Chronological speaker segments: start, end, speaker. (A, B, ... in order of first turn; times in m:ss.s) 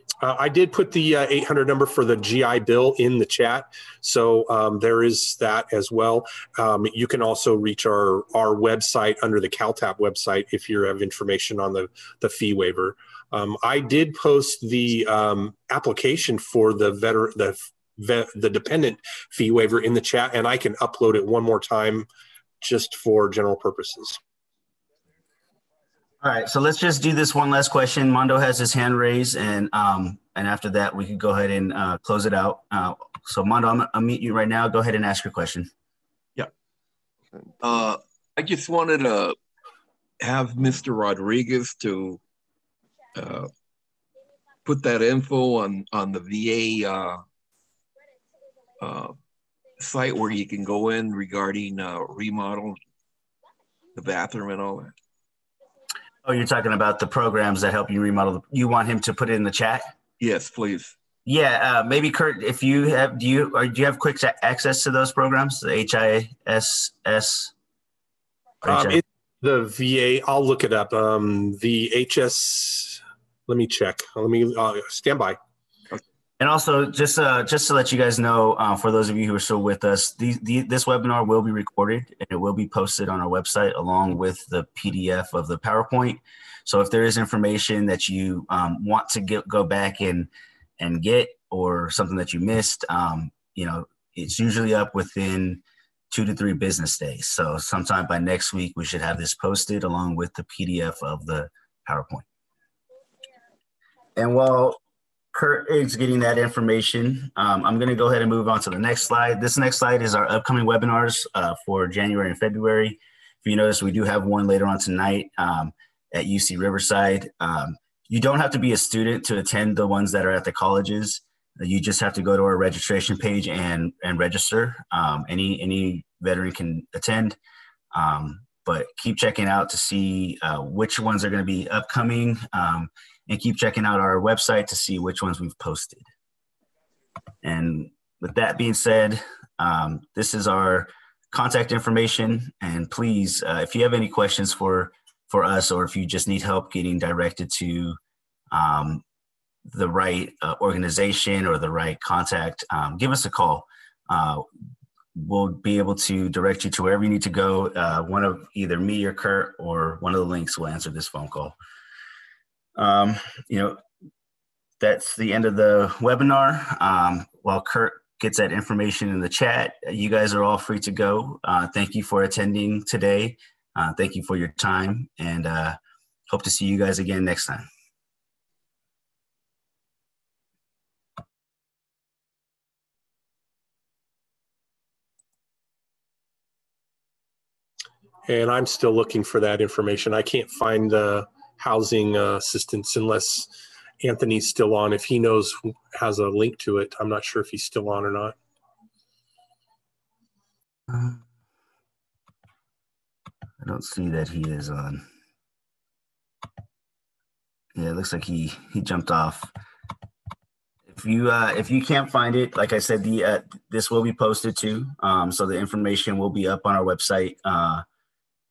0:00.2-0:22.1 A
0:22.6-0:24.2 A
0:26.2-0:35.7 B
0:37.6-0:39.4 C
0:40.2-0:42.2 C
0:43.2-0:43.5 C
0:44.6-0:47.2 C
0:48.8-0:49.2 C
0:49.8-0:52.8 C
0:54.0-0:54.9 C
0:56.2-1:00.0 B
1:00.2-1:01.0 C
1:01.2-1:07.5 B
1:08.6-1:09.0 B
1:08.7-1:15.4 A
1:16.4-1:42.3 B
1:44.2-1:44.8 B
1:45.3-2:07.4 B
2:07.9-2:16.1 B
2:17.4-2:28.0 B
2:28.5-2:29.0 B
2:29.7-2:34.5 B
2:35.2-2:41.6 B
2:42.8-2:43.8 B
2:44.8-2:55.8 B
2:56.3-2:57.7 B
3:08.3-3:18.4 A
3:20.9-3:21.2 B
3:23.6-3:25.1 B
3:27.8-3:29.5 B
3:30.9-3:37.8 B